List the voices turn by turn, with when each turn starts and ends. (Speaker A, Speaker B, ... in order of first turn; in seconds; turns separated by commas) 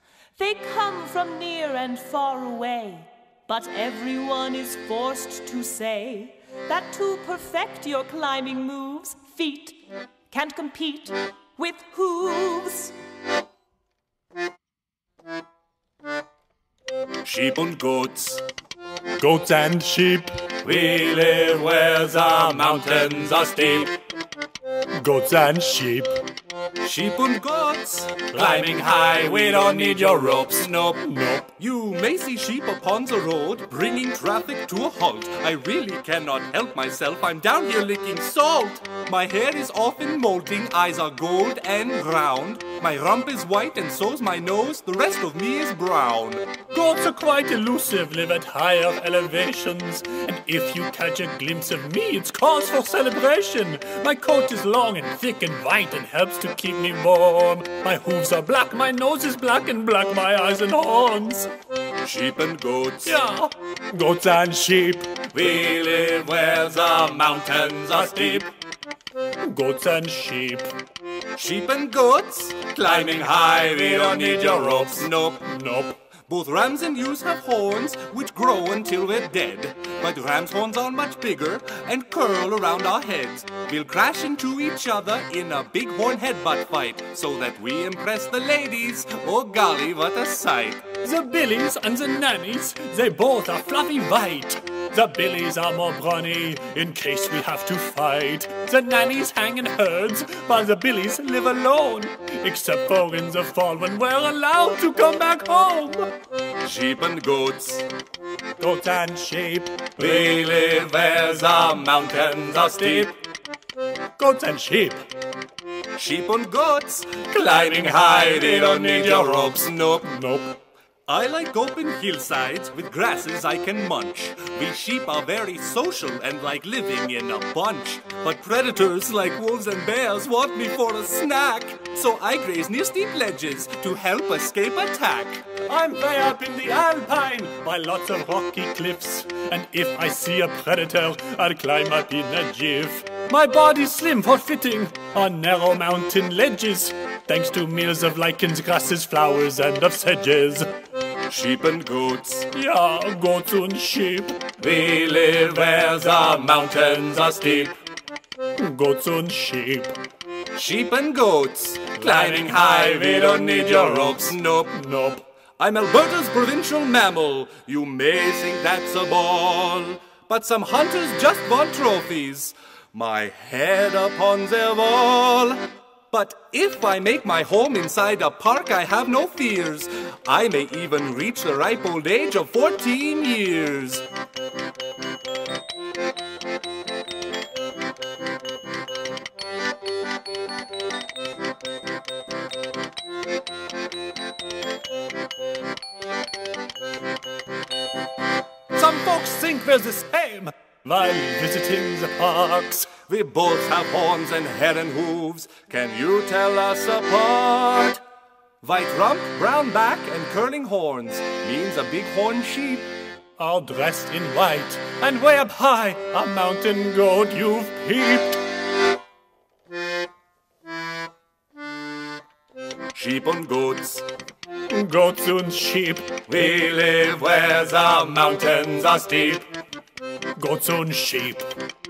Speaker A: 0.3-9.8, Speaker A: 10.3-12.9, Speaker B: 17.2-18.4, Speaker C: 19.2-20.4, Speaker B: 20.6-23.9, Speaker C: 25.0-26.2, Speaker B: 26.8-46.5, Speaker C: 28.4-30.2, Speaker C: 31.0-31.5, Speaker C: 46.7-61.5, Speaker B: 62.0-63.2, Speaker C: 63.0-65.2, Speaker B: 65.3-68.5, Speaker C: 69.4-70.7, Speaker B: 71.3-75.7, Speaker C: 75.6-75.9, Speaker B: 76.2-90.9, Speaker C: 91.0-106.1, Speaker B: 106.6-107.9, Speaker C: 108.6-110.0, Speaker B: 110.0-113.2, Speaker C: 114.2-115.0, Speaker B: 115.9-120.1, Speaker C: 120.0-120.6, Speaker B: 121.1-135.5, Speaker C: 135.6-150.7, Speaker B: 151.3-152.5, Speaker C: 152.5-154.5, Speaker B: 154.6-157.8, Speaker C: 158.6-159.9, Speaker B: 160.5-164.8, Speaker C: 162.0-165.2, Speaker B: 165.6-184.0, Speaker C: 198.7-202.9, Speaker B: 203.0-208.0, Speaker B: 208.6-212.9, Speaker C: 213.4-218.4, Speaker B: 222.9-224.1, Speaker C: 224.7-226.2, Speaker B: 226.3-229.4, Speaker C: 230.3-231.5